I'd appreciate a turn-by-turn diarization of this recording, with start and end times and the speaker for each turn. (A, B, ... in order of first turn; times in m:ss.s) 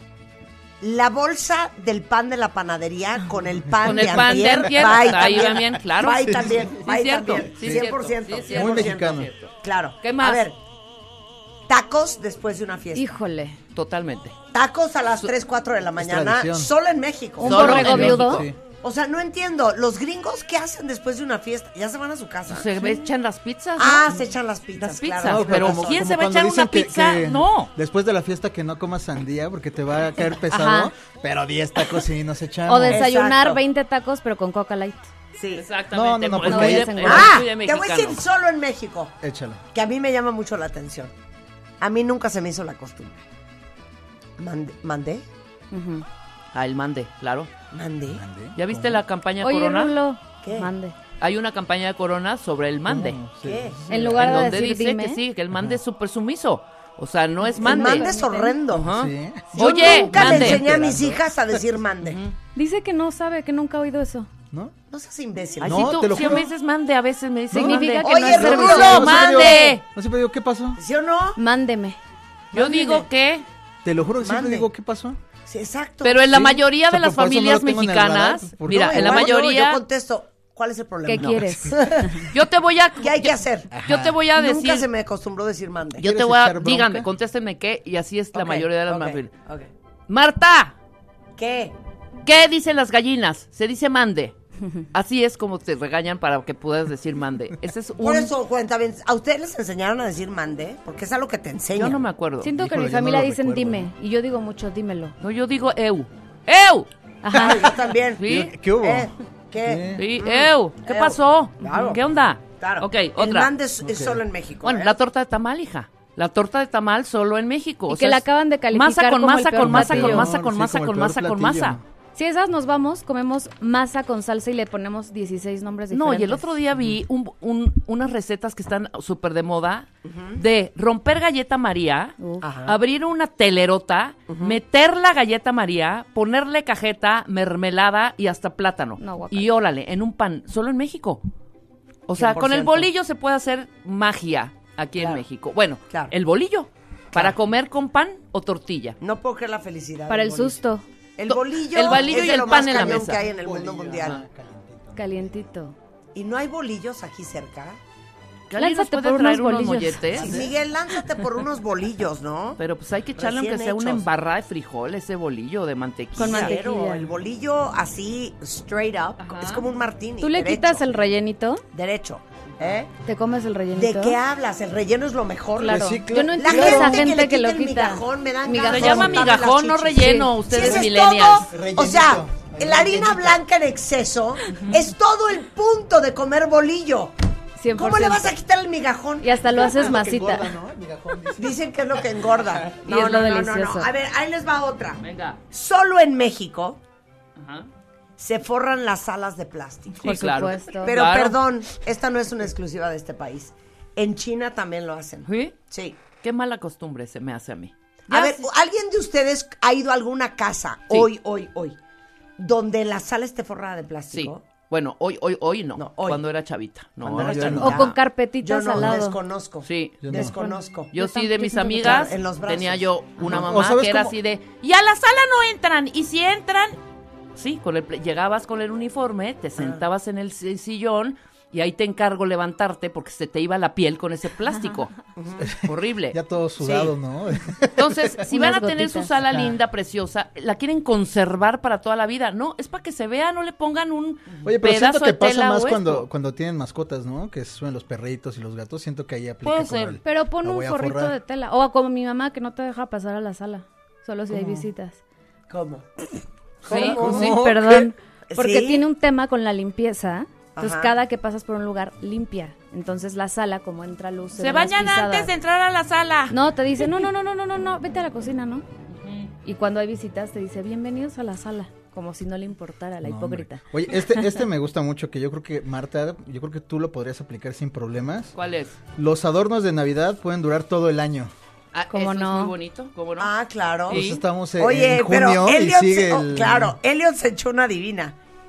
0:00.8-0:10.6 A
0:03.6-0:05.0 B
0:03.8-0:10.4 C
0:06.3-0:06.6 B
0:07.6-0:07.9 B
0:08.5-0:09.3 B
0:11.7-0:13.2 A
0:12.9-0:13.6 D
0:13.7-0:14.3 C
0:14.5-0:18.2 A
0:16.0-0:16.7 B
0:17.4-0:18.4 D
0:17.4-0:18.4 C
0:17.4-0:18.6 B
0:18.8-0:22.7 A
0:22.5-0:24.1 C
0:23.8-0:26.0 A
0:24.8-0:27.7 C
0:25.2-0:33.1 B
0:30.4-0:30.9 D
0:32.7-0:35.1 D
0:32.9-0:33.6 A
0:35.4-0:35.6 A
0:35.5-0:38.2 C
0:35.9-0:37.2 B
0:36.4-0:37.3 D
0:37.0-0:39.2 A
0:39.2-0:39.6 B
0:39.7-0:41.1 A
0:41.8-0:43.2 A
0:44.4-0:45.3 A
0:45.7-0:46.0 D
0:46.5-0:47.5 C
0:47.7-0:48.2 A
0:48.1-0:49.0 B
0:48.6-0:49.9 C
0:49.4-0:50.9 D
0:50.4-0:50.7 A
0:51.2-0:53.2 C
0:52.9-0:54.6 B
0:53.4-0:53.8 A
0:53.9-0:55.2 D
0:54.2-0:58.1 C
0:55.5-0:55.8 B
0:57.5-0:58.6 D
0:57.5-0:58.9 A
0:58.7-1:00.6 C
0:58.8-1:01.2 B
0:59.5-1:02.2 A
1:02.0-1:02.3 C
1:02.5-1:04.3 D
1:04.9-1:06.4 A
1:05.6-1:09.8 C
1:05.6-1:06.5 B
1:07.5-1:10.8 B
1:07.5-1:09.0 D
1:08.0-1:09.8 A
1:10.8-1:11.4 A
1:11.4-1:12.0 D
1:12.5-1:13.0 A
1:12.5-1:13.4 C
1:13.8-1:15.2 B
1:14.2-1:14.7 A
1:15.5-1:16.4 A
1:16.0-1:19.8 C
1:16.3-1:19.3 B
1:18.7-1:22.3 A
1:21.0-1:22.1 D
1:22.3-1:24.8 C
1:23.0-1:23.7 A
1:23.7-1:24.2 B
1:24.3-1:26.1 A
1:26.0-1:27.1 B
1:26.0-1:29.3 C
1:28.3-1:29.7 A
1:30.1-1:30.7 C
1:31.4-1:31.7 A
1:32.2-1:34.3 C
1:34.9-1:38.3 C
1:38.0-1:42.0 A
1:41.7-1:42.5 C
1:42.4-1:45.1 D
1:42.4-1:43.9 B
1:45.2-1:46.9 C
1:47.2-1:47.7 D
1:47.3-1:52.0 A
1:48.2-1:48.5 C
1:48.2-1:50.0 B
1:50.0-1:53.5 C
1:51.6-1:52.0 D
1:52.6-1:54.9 A
1:53.8-1:54.2 B
1:54.6-2:01.8 C
1:57.9-2:00.3 D
1:59.6-2:01.8 B
2:02.1-2:06.5 D
2:05.9-2:21.2 C
2:10.0-2:10.4 A
2:12.2-2:12.4 D
2:12.4-2:12.8 A
2:14.3-2:14.6 A
2:19.0-2:19.5 D
2:22.1-2:29.0 C
2:22.2-2:22.9 A
2:25.0-2:25.2 A
2:29.0-2:30.6 A
2:30.1-2:30.8 D
2:31.2-2:34.2 A
2:31.3-2:33.2 C
2:31.8-2:35.3 B
2:34.9-2:35.7 D
2:36.1-2:37.8 A
2:38.5-2:40.5 C
2:38.5-2:40.2 D
2:40.1-2:40.5 B
2:40.1-2:42.6 A
2:42.6-2:46.6 C
2:43.2-2:44.0 A
2:46.1-2:50.9 A
2:46.2-2:47.1 D
2:49.2-2:49.6 C
2:50.2-2:51.6 D
2:51.7-2:52.9 A
2:53.0-2:54.2 D
2:53.7-3:07.1 A
2:55.6-2:59.4 D
2:55.6-2:57.2 B
2:58.6-3:01.5 C
3:00.0-3:00.3 D
3:01.5-3:03.4 B
3:07.6-3:08.3 D
3:07.8-3:09.5 A
3:09.2-3:10.5 D
3:09.5-3:11.6 B
3:11.4-3:16.8 A
3:12.8-3:13.9 D
3:15.0-3:15.4 C
3:17.4-3:17.7 C
3:18.2-3:20.2 A
3:20.0-3:20.9 D
3:20.0-3:21.4 C
3:20.8-3:26.0 A
3:25.3-3:25.6 C
3:26.2-3:28.5 C
3:28.1-3:31.8 A
3:32.4-3:34.4 A
3:34.1-3:38.0 C
3:35.8-3:36.2 A
3:37.0-3:37.9 A
3:37.2-3:37.8 B
3:37.6-3:39.2 D
3:38.4-3:40.9 A
3:39.6-3:40.1 C
3:40.0-3:40.3 B
3:40.1-3:42.1 D
3:40.9-3:46.8 C
3:41.8-3:43.3 A
3:43.2-3:44.1 B
3:47.3-3:54.9 C
3:49.6-3:49.8 A
3:55.2-3:55.5 A
3:55.4-3:58.2 B
3:55.6-3:56.8 C
3:57.8-4:06.0 C
3:58.3-3:59.1 D
4:04.4-4:11.2 B
4:09.4-4:10.0 C
4:10.0-4:15.0 D
4:14.3-4:14.6 B
4:15.5-4:15.9 A
4:16.6-4:17.3 A
4:16.6-4:17.2 C
4:16.7-4:25.3 D
4:16.8-4:17.9 B
4:18.3-4:18.8 A
4:20.6-4:20.9 A
4:24.4-4:26.3 C
4:26.3-4:28.6 D
4:29.0-4:29.3 C
4:29.4-4:34.3 D
4:33.0-4:38.3 B
4:38.3-4:38.8 C
4:39.0-4:41.3 B
4:41.7-4:43.3 C
4:41.9-4:42.5 D
4:43.2-4:44.0 A
4:43.9-4:44.2 C
4:43.9-4:46.7 B
4:44.6-4:48.2 A